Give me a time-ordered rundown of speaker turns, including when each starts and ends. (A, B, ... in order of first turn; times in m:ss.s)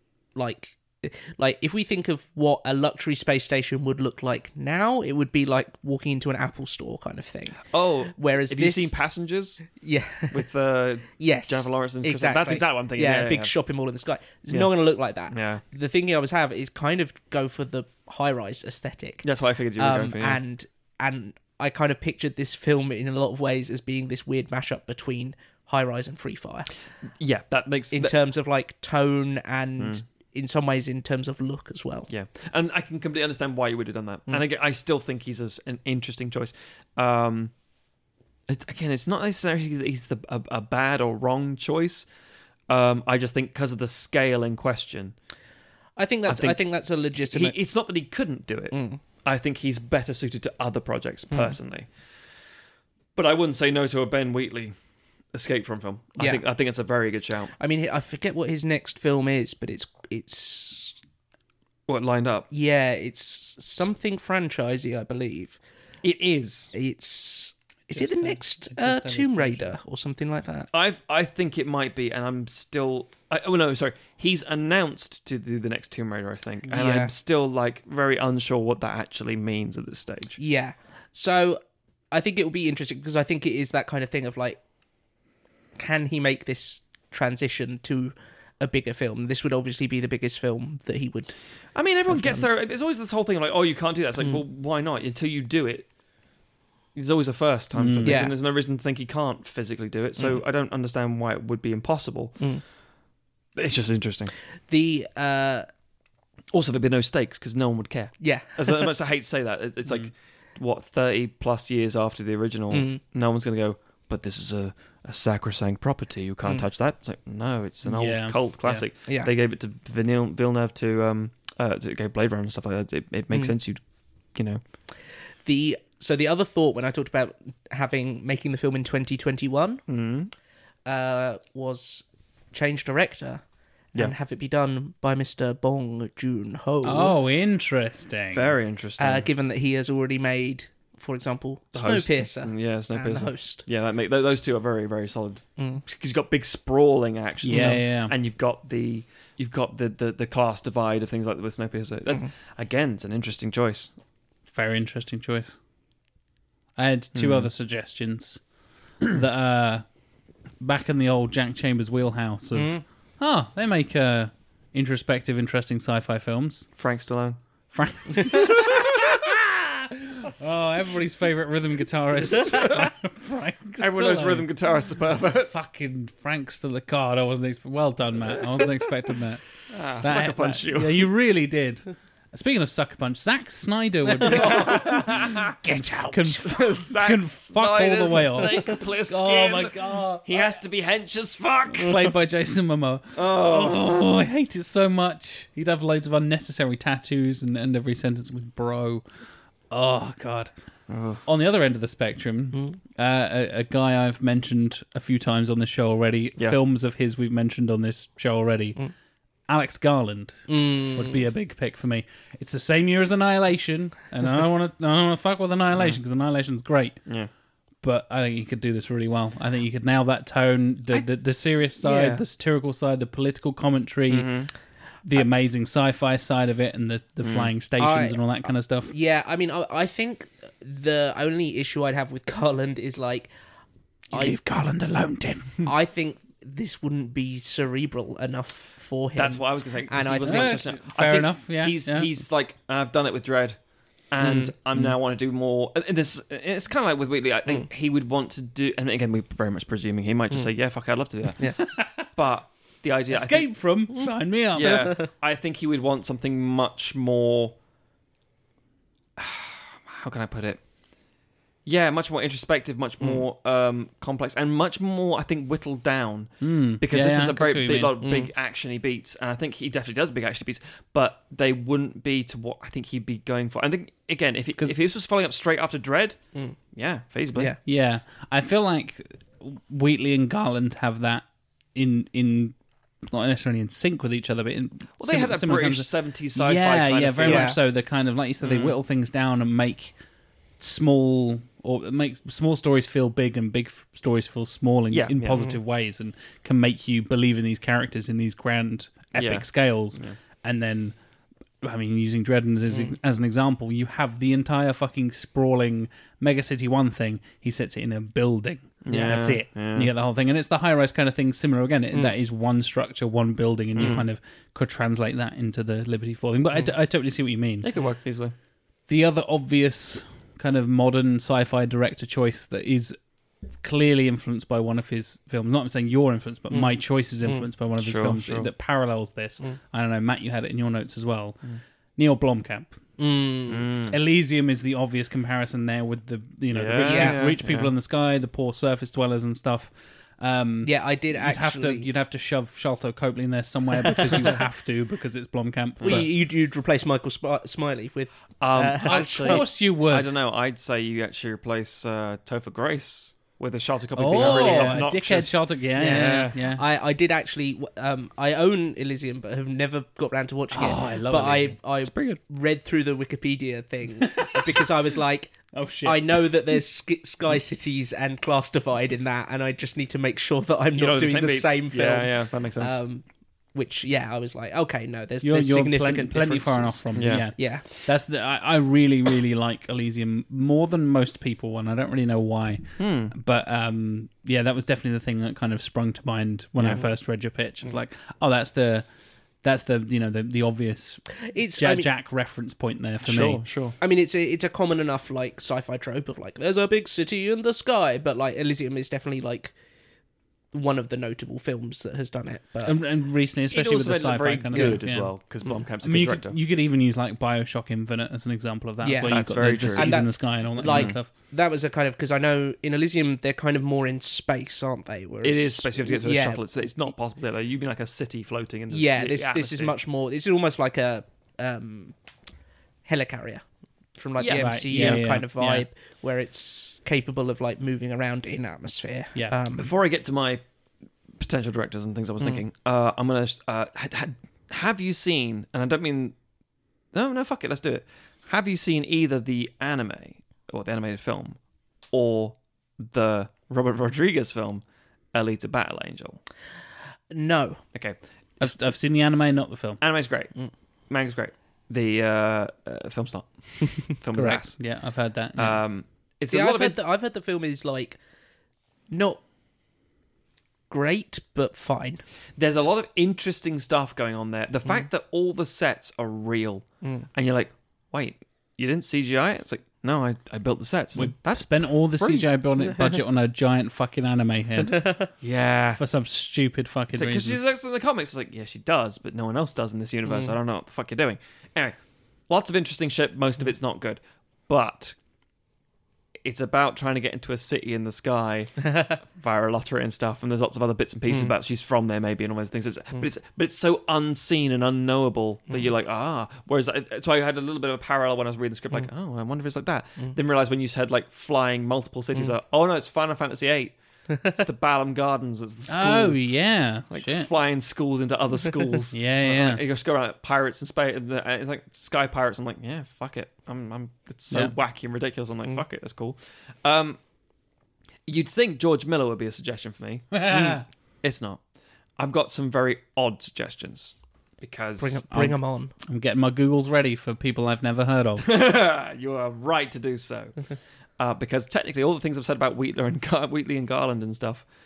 0:00.3-0:07.6 A
0:07.7-0:09.7 B
0:08.1-0:08.9 A
0:09.8-0:10.4 A
0:10.3-0:13.5 B
0:11.2-0:19.2 A
0:15.3-0:15.6 B
0:19.2-0:20.4 B
0:19.8-0:26.7 A
0:27.2-0:28.1 B
0:27.9-0:32.1 A
0:32.1-0:37.5 B
0:38.5-0:42.0 B
0:42.7-0:45.1 B
0:46.0-0:47.6 A
0:46.3-0:46.7 B
0:47.3-0:51.9 B
0:48.7-0:49.0 A
0:53.2-0:54.7 B
0:55.3-0:57.5 B
0:57.6-1:01.0 A
1:01.9-1:02.5 B
1:02.5-1:05.6 A
1:06.0-1:06.7 B
1:06.7-1:10.7 A
1:07.9-1:09.7 C
1:10.7-1:20.4 B
1:16.7-1:17.1 A
1:20.4-1:24.6 A
1:25.8-1:31.4 A
1:31.7-1:35.9 B
1:32.1-1:32.4 C
1:36.9-1:42.4 B
1:37.7-1:38.3 C
1:38.0-1:38.3 A
1:43.6-1:44.3 B
1:44.7-1:45.7 A
1:46.5-2:03.8 B
1:48.2-1:48.9 A
1:52.7-1:53.0 A
1:57.8-1:58.8 C
2:04.3-2:04.6 B
2:05.4-2:09.8 A
2:09.9-2:10.3 B
2:10.8-2:13.4 A
2:13.9-2:17.2 A
2:16.8-2:18.5 C
2:18.3-2:19.3 B
2:19.0-2:23.6 A
2:21.7-2:33.9 B
2:25.6-2:25.8 A
2:27.4-2:28.1 C
2:27.5-2:27.8 A
2:34.4-2:35.6 C
2:36.8-2:38.4 C
2:37.1-2:37.5 B
2:39.0-2:39.8 C
2:40.6-2:46.7 C
2:42.5-2:42.8 A
2:46.8-2:47.4 B
2:47.7-2:54.5 C
2:48.2-2:48.8 B
2:52.5-2:52.8 B
2:53.8-2:55.6 B
2:55.5-2:59.4 C
2:59.7-3:01.1 B
3:00.0-3:10.5 C
3:04.2-3:12.2 B
3:11.7-3:19.0 C
3:13.1-3:13.9 B
3:19.7-3:20.5 C
3:20.9-3:21.2 B
3:21.2-3:28.8 C
3:29.5-3:37.0 C
3:30.5-3:31.2 A
3:37.8-3:44.3 C
3:41.8-3:42.2 B
3:44.1-3:44.5 B
3:45.0-3:48.9 C
3:47.2-3:47.5 B
3:47.8-3:48.2 A
3:48.9-3:53.3 A
3:54.1-3:55.6 C
3:55.6-4:00.6 A
3:59.2-4:03.6 B
4:00.2-4:02.1 C
4:04.1-4:13.7 B
4:04.2-4:04.5 A
4:11.6-4:12.0 C
4:13.1-4:14.9 C
4:14.5-4:17.5 B
4:14.6-4:15.1 A
4:19.2-4:20.6 B
4:21.6-4:36.2 B
4:26.4-4:28.0 C
4:28.0-4:28.3 A
4:36.7-4:37.5 B
4:37.6-4:50.0 C
4:45.0-4:47.5 B
4:47.2-4:47.6 A
4:48.4-4:48.8 B
4:50.6-5:01.0 C
4:54.9-4:55.5 B
4:59.1-5:00.2 B
5:01.6-5:17.7 C
5:08.8-5:09.9 B
5:08.9-5:09.1 A
5:13.8-5:14.0 B
5:17.6-5:18.3 B
5:18.9-5:23.0 C
5:23.6-5:31.4 C
5:27.8-5:28.5 B
5:32.0-5:32.8 C
5:33.0-5:33.7 A
5:33.5-5:34.0 B
5:33.9-5:46.1 C
5:36.5-5:37.7 B
5:36.8-5:37.2 A
5:40.6-5:41.9 A
5:43.8-5:44.4 A
5:45.8-5:46.0 B
5:45.8-5:49.4 A
5:48.4-5:56.4 B
5:48.8-5:50.2 C
5:54.0-5:56.6 C
5:54.1-5:54.9 A
5:55.7-6:16.8 A
6:00.5-6:01.6 C
6:04.0-6:04.6 C
6:05.5-6:06.3 C
6:10.8-6:12.8 B
6:15.2-6:28.8 C
6:16.9-6:17.3 B
6:17.4-6:17.6 A
6:22.8-6:23.1 B
6:26.6-6:26.8 B
6:29.4-6:33.4 C
6:31.2-6:31.9 A
6:33.0-6:33.7 B
6:33.8-6:39.5 A
6:40.5-6:42.8 A
6:42.6-6:45.2 C
6:43.5-6:46.4 B
6:44.5-6:44.8 A
6:45.8-6:51.1 C
6:48.8-6:56.4 A
6:49.0-6:50.9 B
6:55.2-6:59.7 B
6:58.7-7:02.0 A
7:02.8-7:03.4 A
7:04.0-7:09.7 A
7:04.2-7:05.0 B
7:04.3-7:05.6 C
7:09.5-7:10.4 B
7:11.2-7:16.1 B
7:16.9-7:21.4 B
7:21.9-7:24.6 B
7:25.1-7:26.2 B
7:27.1-7:27.6 A
7:27.7-7:28.5 B
7:28.4-7:29.8 C
7:29.8-7:30.4 B
7:30.9-7:34.6 B
7:34.1-7:35.6 C
7:35.4-7:36.8 B
7:36.3-7:38.0 A
7:38.9-7:39.2 A
7:40.7-7:42.0 A
7:42.4-7:52.3 B
7:50.9-7:54.9 C
7:54.8-7:55.1 A
7:55.2-7:55.8 B
7:55.8-7:57.4 C
7:56.9-8:01.8 B
8:00.1-8:00.3 A
8:02.3-8:05.0 B
8:06.2-8:23.7 B
8:24.1-8:24.4 A
8:24.3-8:26.3 B
8:25.7-8:27.3 C
8:26.9-8:37.0 B
8:28.9-8:29.6 C
8:38.1-8:41.4 B
8:40.1-8:40.6 C
8:42.0-8:45.0 B
8:44.8-8:45.7 A
8:45.1-8:48.3 C
8:48.2-8:54.4 B